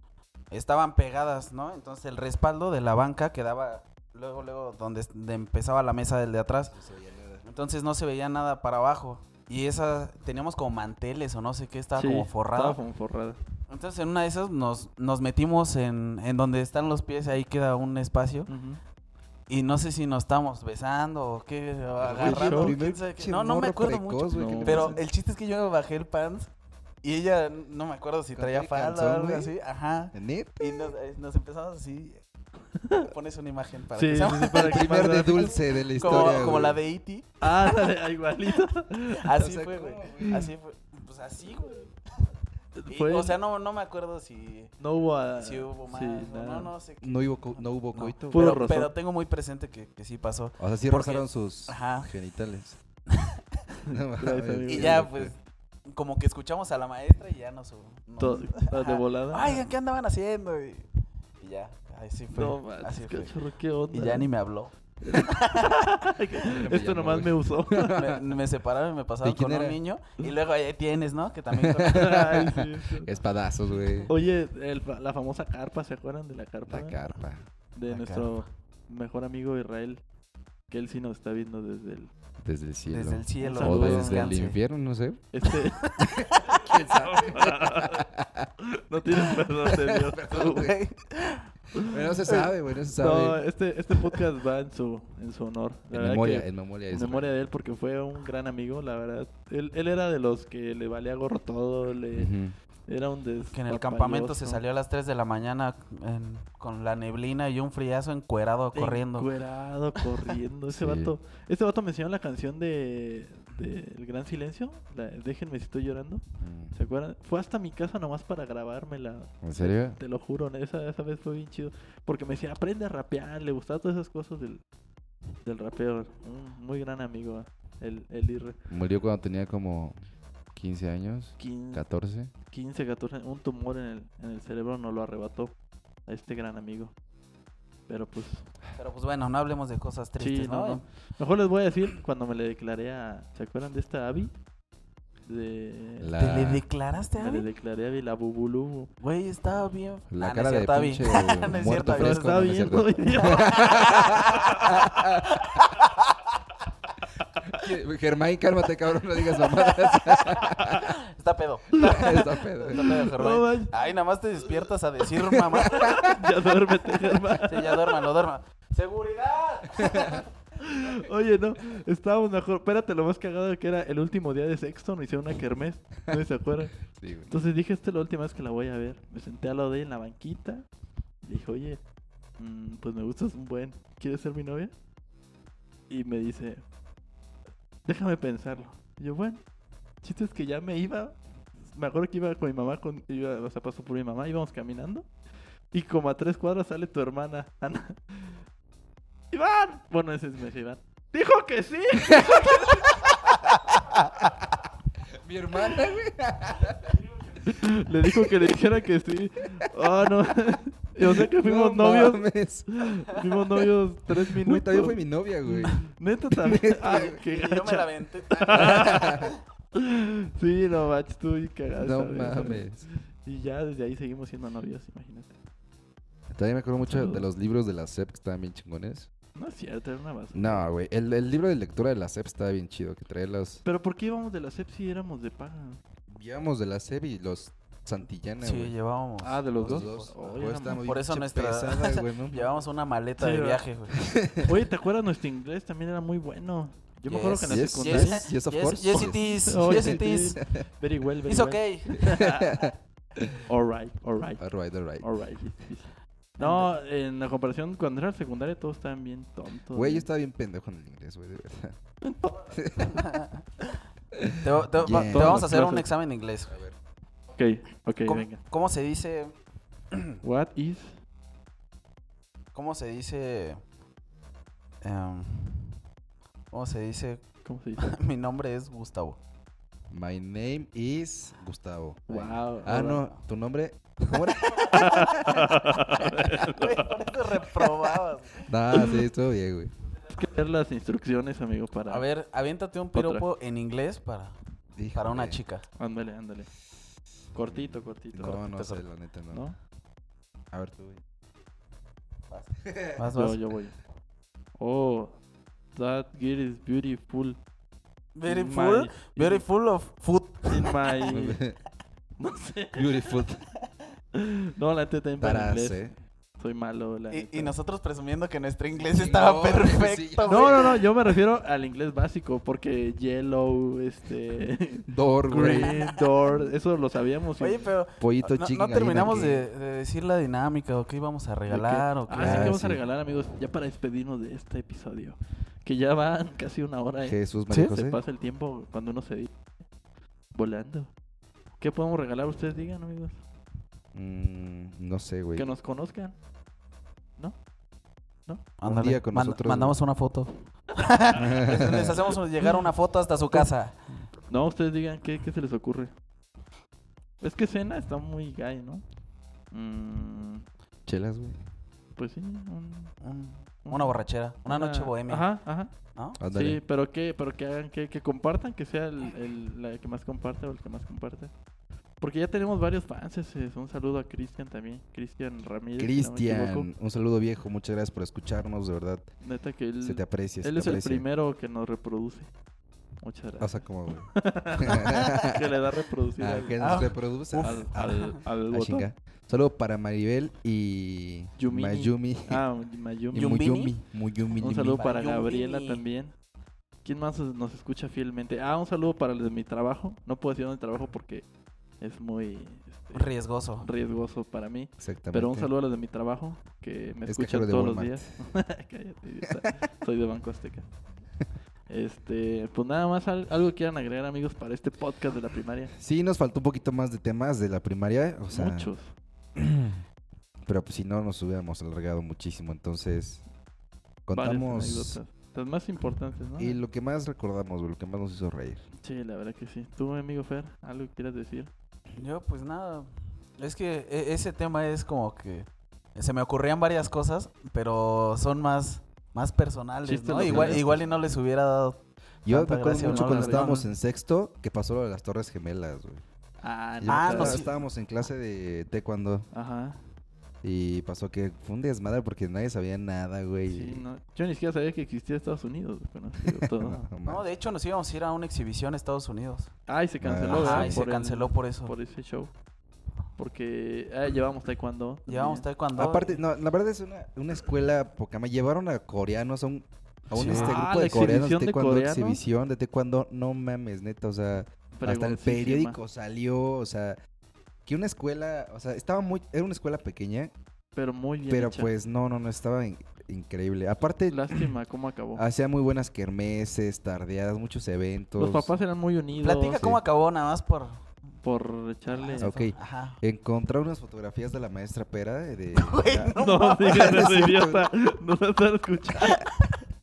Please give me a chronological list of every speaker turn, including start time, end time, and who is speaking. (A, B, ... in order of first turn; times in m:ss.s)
0:00.5-0:06.8 A
0:06.7-0:07.4 B
0:07.4-0:12.8 A
0:12.0-0:13.4 C
0:13.7-0:18.5 A
0:18.5-0:18.8 C
0:19.5-0:26.5 A
0:22.0-0:25.0 B
0:22.2-0:22.8 C
0:24.3-0:25.0 C
0:27.0-0:32.2 A
0:28.4-0:29.5 B
0:30.1-0:30.9 B
0:32.8-0:33.1 C
0:33.0-0:35.4 A
0:34.0-0:36.5 C
0:34.6-0:36.8 B
0:36.0-0:37.9 A
0:37.4-0:39.3 C
0:39.2-0:42.0 A
0:39.4-0:40.5 B
0:40.2-0:40.5 C
0:42.8-0:43.4 C
0:42.9-0:44.7 A
0:44.8-0:46.7 C
0:45.4-0:52.1 A
0:47.0-0:48.5 B
0:48.3-0:48.9 C
0:50.6-0:52.8 B
0:53.9-0:55.0 C
0:53.9-0:55.3 B
0:54.7-1:00.9 A
0:58.2-0:59.7 C
1:01.4-1:03.4 A
1:02.3-1:04.3 C
1:03.9-1:05.9 A
1:05.1-1:08.0 C
1:06.5-1:08.2 B
1:07.9-1:12.5 A
1:09.2-1:09.8 B
1:11.5-1:12.5 B
1:11.9-1:13.1 C
1:13.0-1:14.1 B
1:14.1-1:17.0 C
1:16.7-1:17.4 B
1:17.8-1:20.0 C
1:17.9-1:18.4 A
1:20.7-1:22.1 C
1:22.4-1:25.2 B
1:22.9-1:24.6 A
1:23.4-1:24.4 C
1:25.3-1:25.9 C
1:25.8-1:26.6 A
1:26.2-1:28.5 B
1:26.4-1:28.1 C
1:28.6-1:30.7 C
1:29.7-1:30.7 B
1:30.3-1:31.5 A
1:31.9-1:33.4 B
1:33.0-1:42.3 C
1:35.9-1:37.3 B
1:42.2-1:42.6 B
1:42.9-1:44.6 C
1:43.5-1:49.3 A
1:48.7-2:04.6 C
1:50.7-1:51.2 B
1:56.4-1:56.8 B
1:59.4-2:00.0 B
2:05.4-2:08.6 C
2:08.7-2:10.0 B
2:10.5-2:12.3 B
2:11.4-2:11.8 C
2:12.5-2:15.5 C
2:16.1-2:16.9 C
2:17.9-2:18.5 C
2:18.8-2:20.9 A
2:20.2-2:24.4 C
2:25.3-2:26.1 C
2:26.0-2:26.6 B
2:26.2-2:27.5 A
2:27.2-2:28.9 C
2:29.0-2:34.7 A
2:30.1-2:35.3 B
2:31.7-2:35.1 C
2:35.4-2:36.3 A
2:37.0-2:37.6 C
2:37.5-2:40.8 B
2:39.5-2:46.2 A
2:40.5-2:40.9 C
2:41.7-2:42.2 C
2:41.8-2:42.9 B
2:42.7-2:43.7 C
2:45.4-2:46.2 B
2:46.0-2:47.8 C
2:47.4-2:50.2 A
2:49.8-2:50.2 B
2:50.6-2:56.8 C
2:56.8-2:57.3 B
2:57.3-3:00.7 C
3:01.2-3:01.8 C
3:02.4-3:04.7 C
3:05.9-3:06.6 C
3:07.8-3:09.4 C
3:10.0-3:11.2 C
3:11.7-3:15.1 C
3:15.7-3:18.3 C
3:19.3-3:23.0 C
3:25.2-3:27.6 B
3:27.4-3:42.7 C
3:31.0-3:32.7 B
3:34.2-3:37.2 B
3:36.8-3:39.3 A
3:38.6-3:39.3 B
3:41.8-3:42.9 B
3:43.2-3:45.4 C
3:46.3-3:49.1 B
3:46.8-3:47.3 C
3:49.4-3:50.7 C
3:50.3-3:53.6 B
3:53.6-3:55.8 C
3:56.1-3:58.7 B
3:58.4-4:00.1 A
3:59.2-4:00.8 C
3:59.6-4:02.5 B
4:00.9-4:04.0 A
4:03.2-4:03.6 C
4:04.0-4:04.5 B
4:04.4-4:08.2 C
4:07.1-4:10.4 A
4:07.5-4:10.6 B
4:08.9-4:12.7 C
4:11.3-4:11.9 A
4:12.0-4:13.4 B
4:13.5-4:14.4 C
4:14.4-4:15.1 B
4:15.0-4:20.1 C
4:16.4-4:16.7 A
4:19.7-4:21.8 B
4:22.0-4:22.5 C
4:22.5-4:23.0 B
4:23.0-4:23.4 A
4:24.2-4:25.4 B
4:24.4-4:26.6 A
4:24.9-4:25.9 C
4:26.5-4:26.8 B
4:27.4-4:28.4 C
4:28.1-4:29.3 A
4:29.9-4:30.2 A
4:30.2-4:31.0 C
4:32.5-4:33.6 A
4:34.8-4:35.8 A
4:36.5-4:37.2 A
4:37.4-4:37.9 C
4:37.8-4:39.2 A
4:39.9-4:45.3 B
4:42.1-4:43.0 C
4:44.1-4:45.4 A
4:44.7-4:47.7 C
4:46.0-4:48.5 A
4:48.4-4:49.7 B
4:48.7-4:49.0 C
4:50.1-4:52.1 C
4:51.9-4:54.4 A
4:52.9-4:53.2 C
4:54.8-4:55.4 B
4:54.9-4:55.6 A
4:55.8-4:56.5 C
4:57.3-4:58.5 C
4:57.5-4:59.5 B
4:58.4-4:58.8 A
4:59.3-4:59.6 C
5:00.5-5:01.0 B
5:02.3-5:03.4 A
5:03.1-5:03.8 C
5:04.6-5:05.2 C
5:05.8-5:07.4 C
5:08.2-5:11.2 A
5:08.3-5:09.4 C
5:10.5-5:11.4 C
5:11.1-5:11.6 B
5:12.2-5:12.9 C
5:12.8-5:13.5 B
5:14.2-5:15.8 C
5:15.2-5:16.0 B
5:16.4-5:17.6 C
5:17.1-5:20.8 A
5:18.9-5:20.7 B
5:20.3-5:27.7 C
5:24.9-5:25.8 B
5:25.4-5:26.4 A
5:27.4-5:32.6 A
5:28.0-5:29.5 B
5:31.5-5:39.4 C
5:32.1-5:32.8 B
5:37.0-5:38.0 B
5:40.3-5:40.9 C
5:41.6-5:43.2 C
5:43.9-5:45.5 B
5:45.4-5:46.2 C
5:48.6-5:53.8 A
5:48.7-5:49.8 B
5:51.2-5:52.0 B
5:54.3-5:55.9 C
5:57.2-5:58.8 C
5:59.5-6:00.4 C
6:00.9-6:01.4 B
6:02.0-6:03.0 C
6:03.0-6:05.3 A
6:03.6-6:05.7 C
6:06.2-6:06.6 B
6:06.3-6:11.3 C
6:12.0-6:16.7 C
6:15.8-6:19.1 B
6:19.2-6:22.3 C
6:19.8-6:21.0 B
6:23.0-6:26.6 C
6:23.4-6:25.5 B
6:26.2-6:32.4 B
6:26.6-6:28.2 A
6:27.4-6:28.9 C
6:31.4-6:33.5 C
6:33.1-6:34.8 B
6:33.2-6:33.8 A
6:34.4-6:35.8 A
6:34.4-6:36.1 C
6:36.8-6:41.2 C
6:41.8-6:43.1 C
6:42.9-6:43.7 A
6:43.6-6:50.7 C
6:44.8-6:45.5 B
6:47.1-6:48.1 B
6:51.7-6:55.7 C
6:55.8-6:58.7 B
6:58.3-6:59.0 C
6:59.4-6:59.8 B
7:00.4-7:03.2 B
7:04.1-7:05.0 B
7:04.1-7:06.6 C
7:06.4-7:08.6 B
7:08.8-7:11.5 C
7:12.0-7:23.6 A
7:19.8-7:20.7 C
7:20.2-7:20.8 B
7:22.2-7:26.0 B
7:22.8-7:23.6 C
7:26.4-7:27.4 C
7:26.8-7:29.3 B
7:26.9-7:27.6 A
7:29.3-7:29.8 C
7:30.4-7:33.8 B
7:33.5-7:36.9 C
7:36.2-7:37.2 B
7:37.0-7:39.5 A
7:39.7-7:42.3 C
7:40.0-7:40.8 B
7:40.3-7:41.7 A
7:43.2-7:45.5 C
7:45.1-7:46.2 A
7:45.8-7:57.0 B
7:50.1-7:50.6 A
7:50.3-7:52.2 C
7:54.8-7:55.8 C
7:57.7-8:00.3 B
8:00.8-8:01.7 C
8:01.3-8:04.5 B
8:04.1-8:05.2 C
8:05.2-8:08.5 B
8:08.2-8:09.6 C
8:09.2-8:10.8 A
8:11.2-8:12.3 C
8:11.9-8:13.0 A
8:12.2-8:17.7 B
8:15.6-8:17.1 A
8:16.2-8:19.2 C
8:19.0-8:19.6 A